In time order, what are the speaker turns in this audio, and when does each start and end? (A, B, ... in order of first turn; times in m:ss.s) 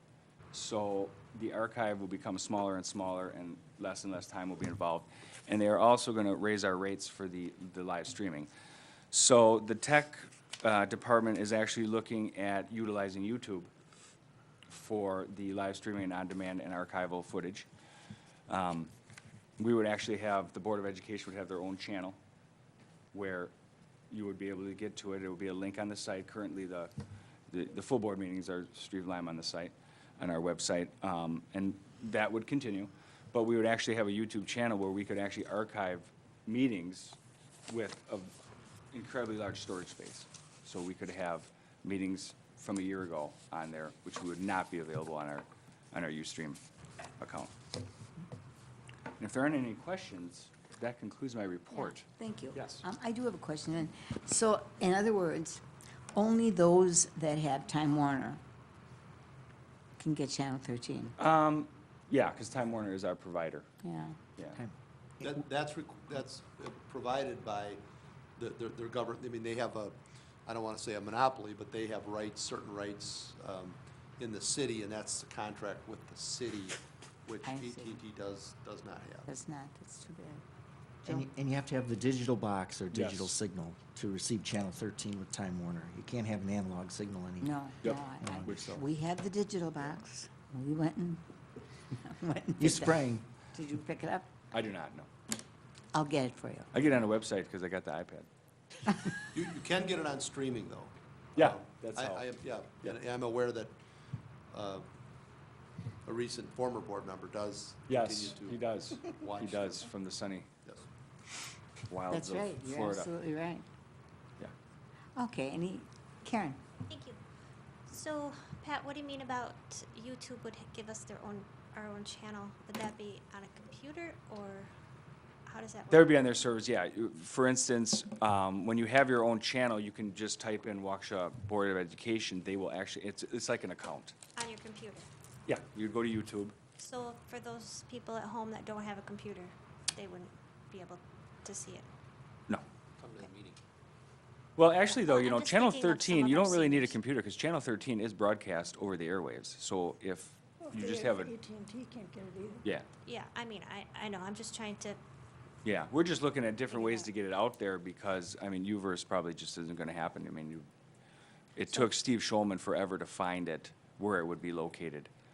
0:00.5-0:08.5 A
0:09.1-0:13.7 A
0:14.7-0:17.7 A
0:18.5-0:18.9 A
0:19.6-0:22.2 A
0:23.1-0:23.5 A
0:24.1-0:26.9 A
0:27.5-0:37.2 A
0:37.7-0:38.3 A
0:38.9-0:46.6 A
0:47.2-0:47.5 A
0:49.2-0:52.8 A
0:51.7-0:55.6 B
0:56.1-0:58.4 B
1:00.0-1:01.2 B
1:01.2-1:03.7 A
1:03.8-1:04.2 B
1:04.5-1:05.4 C
1:05.2-1:07.8 D
1:08.4-1:19.3 D
1:17.4-1:18.0 B
1:19.2-1:20.4 B
1:21.0-1:27.5 C
1:22.9-1:23.3 A
1:27.4-1:31.2 B
1:27.8-1:28.8 A
1:28.2-1:28.8 C
1:32.0-1:34.3 B
1:32.6-1:33.3 C
1:34.5-1:35.1 A
1:35.9-1:36.7 B
1:36.7-1:38.3 A
1:39.3-1:43.8 D
1:41.4-1:42.3 A
1:44.5-1:44.8 D
1:46.0-1:48.6 D
1:47.9-1:50.5 A
1:49.1-1:49.9 D
1:51.9-1:53.1 A
1:52.1-1:53.7 B
1:55.2-1:56.6 B
1:56.9-1:57.2 E
1:57.9-2:04.7 E
2:05.4-2:06.2 E
2:05.9-2:14.2 A
2:14.4-2:15.1 E
2:15.5-2:16.6 A
2:16.8-2:21.9 E
2:23.0-2:23.6 D
2:24.6-2:31.3 A
2:24.8-2:27.0 E
2:30.6-2:32.6 F
2:33.0-2:35.0 E
2:35.6-2:40.7 A
2:36.7-2:37.1 E
2:41.6-2:45.1 A